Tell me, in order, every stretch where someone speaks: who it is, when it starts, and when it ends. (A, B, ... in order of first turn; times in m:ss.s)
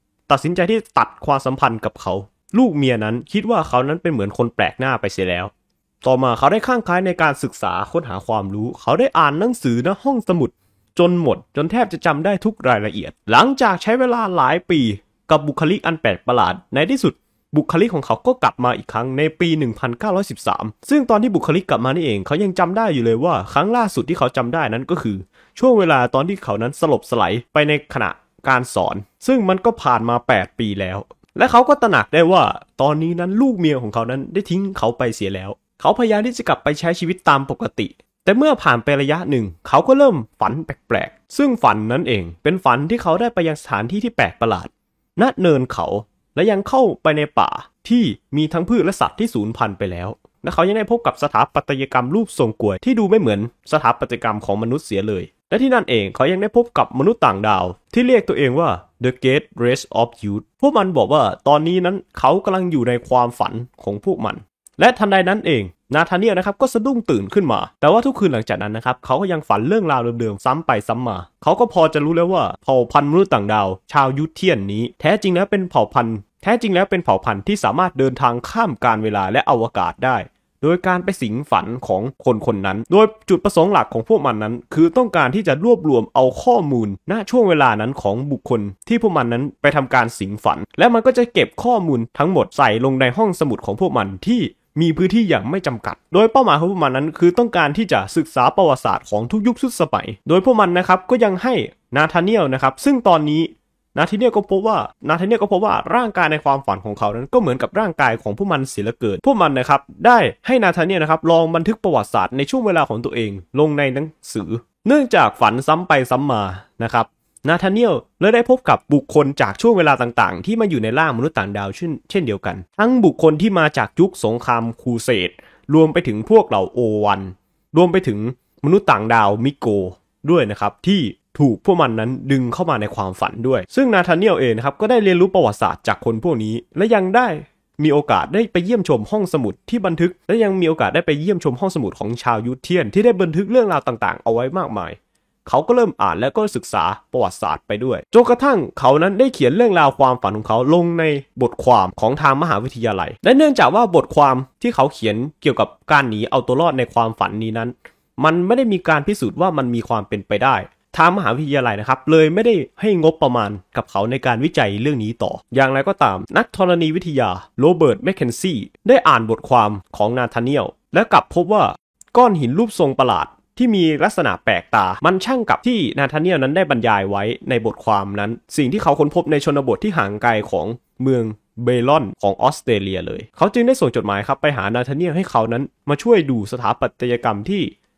0:00.3-0:05.5 A
0:06.0-3:07.7 A